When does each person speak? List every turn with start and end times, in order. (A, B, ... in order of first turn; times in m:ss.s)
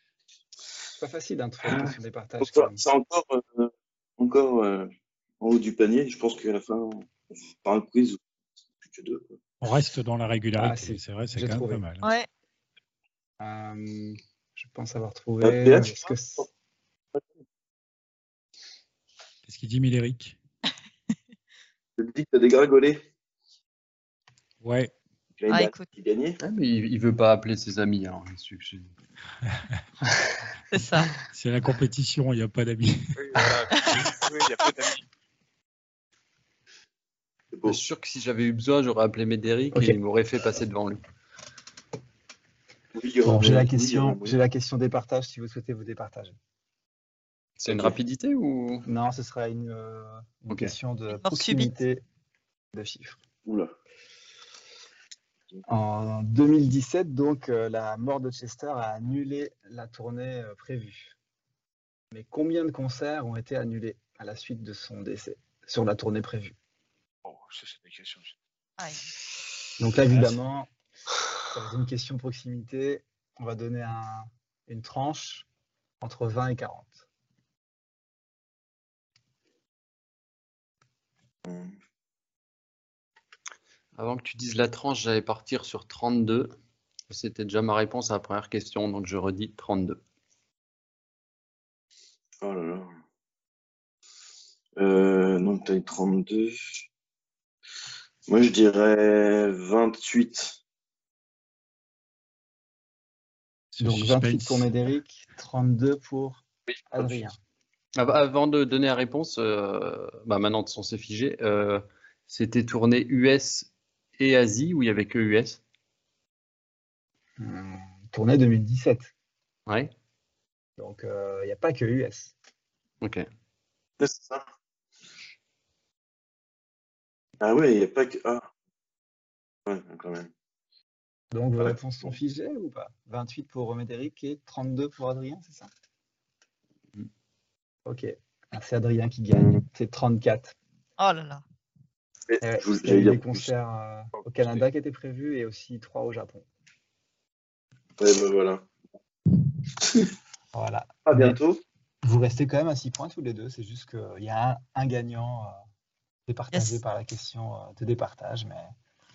0:01.0-0:02.8 A
0:01.6-0:08.2 B
0:08.8-0:09.4 B
0:09.6-0:12.1 C
0:10.6-0:11.8 A
0:12.0-0:12.3 D
0:13.4-0:16.5 A
0:15.4-0:16.4 B
0:19.4-0:20.4 C
0:22.0-0:23.0 B
0:24.6-0:24.9 C
0:25.4-0:26.4 B
0:25.5-0:25.9 D
0:26.4-0:28.9 E
0:30.7-0:31.1 D
0:31.3-0:33.4 C
0:33.1-0:35.0 F
0:33.7-0:34.7 D
0:37.5-0:37.8 B
0:37.6-0:41.0 E
0:39.7-0:40.0 A
0:42.9-0:44.4 B
0:43.2-0:46.4 A
0:47.6-0:48.8 E
0:48.8-0:52.0 A
0:51.1-0:51.7 D
0:52.7-0:53.2 A
0:53.4-0:53.7 B
0:55.6-1:01.1 A
1:02.1-1:06.5 A
1:07.2-1:08.3 F
1:08.8-1:09.1 D
1:09.8-1:10.7 A
1:11.5-1:15.5 A
1:16.0-1:17.0 A
1:21.4-1:21.8 B
1:24.0-1:26.5 E
1:27.1-1:30.0 E
1:32.4-1:32.9 B
1:34.8-1:36.9 B
1:38.3-1:40.6 B
1:43.7-1:44.7 C
1:43.8-1:47.4 A
1:48.0-1:55.6 E
1:57.4-1:59.1 A
2:00.8-2:02.3 A
2:03.0-2:03.2 E
2:04.0-2:04.4 B
2:07.4-2:08.5 B
2:09.6-2:10.3 B
2:11.3-2:15.7 A
2:17.8-2:20.6 A
2:21.0-2:21.4 D
2:22.3-2:23.5 B
2:22.4-2:26.4 A
2:28.0-2:28.7 B
2:29.8-2:30.1 B
2:30.5-2:31.4 A
2:31.0-2:31.6 B
2:32.0-2:35.6 A
2:36.3-2:38.7 A
2:36.5-2:36.8 D